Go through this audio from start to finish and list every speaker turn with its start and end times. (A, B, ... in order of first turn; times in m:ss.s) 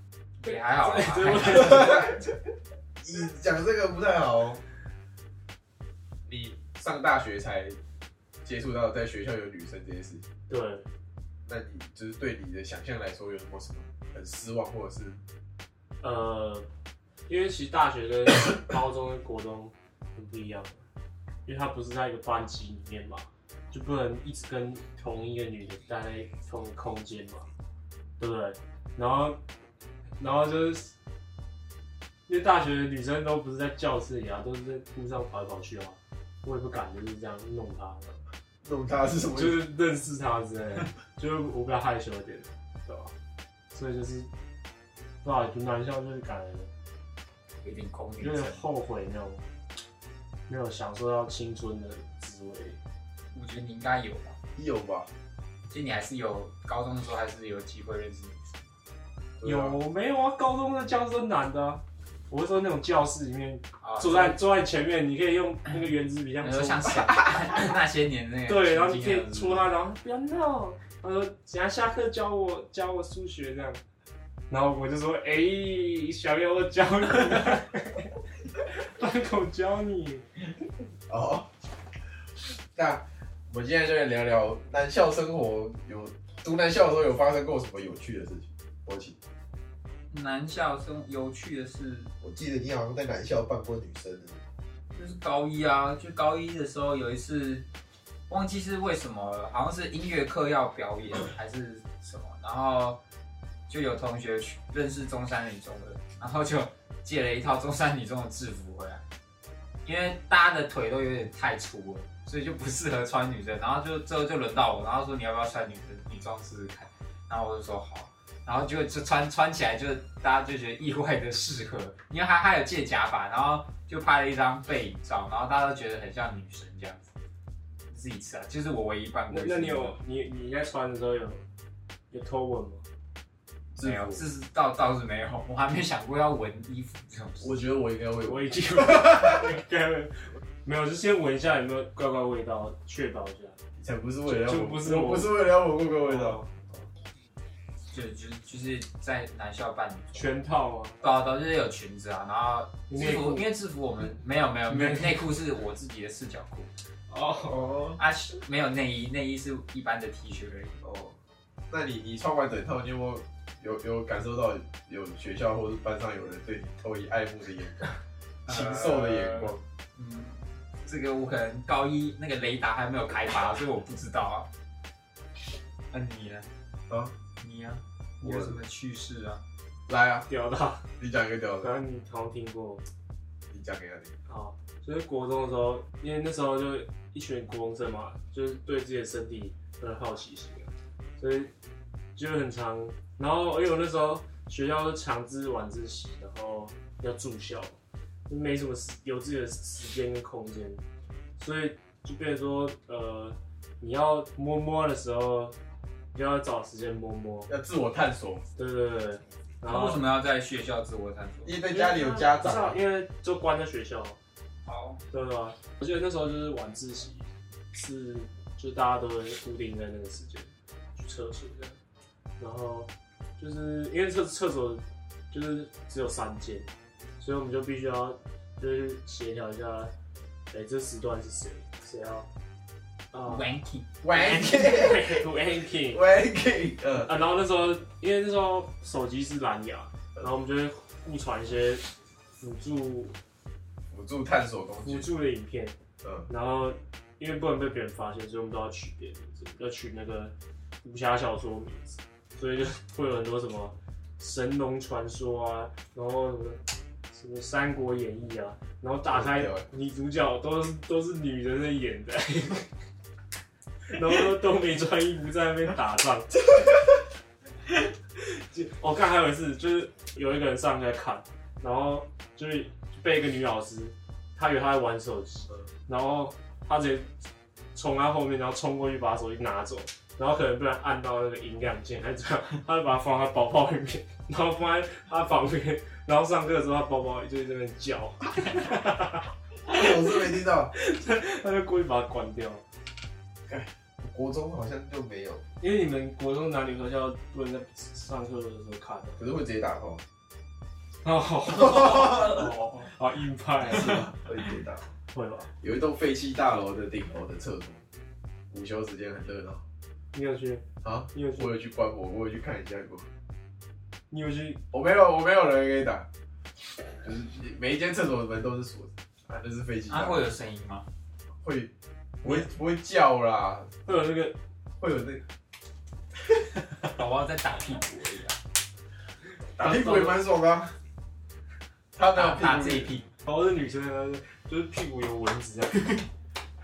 0:00.4-0:02.2 A
0:00.4-0:02.2 B
0:01.7-0:02.1 C
0:03.0-0:04.6 C
0:06.3-0:07.8 C
0:08.4-0:10.2 C
0:10.5-0:10.9 B
0:11.5-0:15.2 C
0:16.0-0:16.7 B
0:17.3-0:20.8 B
0:21.5-0:27.5 B
0:28.2-0:29.4 B
0:30.2-0:30.9 B
0:32.3-0:38.2 B
0:38.6-0:39.6 C
0:39.4-0:43.1 B
0:43.7-0:44.3 B
0:45.2-0:46.7 B
0:47.6-0:48.6 A
0:48.2-0:49.4 B
0:50.5-0:52.8 B
0:53.3-0:54.4 A
0:54.6-0:55.1 C
0:55.7-0:58.6 A
0:59.4-0:59.8 C
0:59.4-1:07.1 B
1:03.8-1:04.4 A
1:06.4-1:09.7 A
1:08.5-1:13.8 B
1:14.5-1:20.3 B
1:21.1-1:21.5 C
1:22.8-1:29.2 C
1:30.1-1:32.1 A
1:32.2-1:34.4 C
1:34.9-1:37.6 A
1:38.3-1:43.0 A
1:43.7-1:49.0 A
1:49.8-2:07.1 A
2:07.9-2:10.0 A
2:09.3-2:11.4 B
2:12.1-2:12.8 B
2:13.8-2:14.2 C
2:13.8-2:17.6 A
2:17.4-2:19.4 C
2:18.2-2:23.6 B
2:23.8-2:26.9 C
2:24.3-2:25.4 B
2:26.0-2:26.5 B
2:27.9-2:30.3 A
2:30.1-2:31.0 B
2:31.0-2:36.7 A
2:32.9-2:33.4 B
2:34.7-2:35.1 B
2:37.1-2:38.0 B
2:38.0-2:40.8 A
2:40.8-2:41.2 C
2:41.7-2:49.6 C
2:48.5-2:54.5 A
2:55.9-2:56.5 A
2:56.9-2:57.1 C
2:57.4-2:59.4 A
2:58.2-2:58.6 C
2:59.9-3:00.3 C
3:00.3-3:00.9 B
3:01.0-3:01.7 C
3:01.6-3:02.8 B
3:03.5-3:04.1 C
3:04.3-3:11.5 B
3:12.2-3:17.8 B
3:18.3-3:20.8 B
3:21.4-3:25.6 B
3:26.1-3:27.5 B
3:27.5-3:28.4 C
3:28.6-3:30.0 B
3:29.6-3:31.6 A
3:31.4-3:32.8 C
3:31.7-3:34.2 B
3:34.7-3:35.0 A
3:35.1-3:41.8 B
3:42.4-3:49.9 B
3:50.5-3:52.3 B
3:53.1-3:53.5 B
3:53.3-3:54.0 A
3:54.0-3:55.3 C
3:54.1-3:56.0 B
3:55.9-3:57.1 C
3:57.0-4:01.9 B
4:02.4-4:03.2 B
4:03.9-4:05.1 C
4:04.8-4:05.8 B
4:06.3-4:16.6 B
4:17.1-4:22.7 B
4:19.1-4:19.7 C
4:23.9-4:26.4 B
4:26.5-4:27.0 C
4:28.2-4:37.1 B
4:37.7-4:52.6 B
4:49.7-4:50.7 C
4:53.5-4:55.4 C
4:55.6-4:59.3 B
4:59.2-5:00.0 C
5:01.0-5:04.2 B
5:03.7-5:04.9 C
5:05.1-5:05.5 B
5:05.6-5:07.8 C
5:08.5-5:09.6 C
5:10.1-5:11.5 B
5:10.8-5:13.1 C
5:14.1-5:14.6 B
5:14.7-5:16.1 C
5:17.0-5:20.2 C
5:19.9-5:20.9 A
5:21.4-5:21.7 C
5:22.2-5:23.7 C
5:23.9-5:24.4 B
5:24.8-5:25.2 C
5:26.8-5:28.4 A
5:29.6-5:30.2 A
5:29.6-5:30.7 C
5:32.0-5:32.9 C
5:32.1-5:33.1 A
5:33.2-5:36.0 B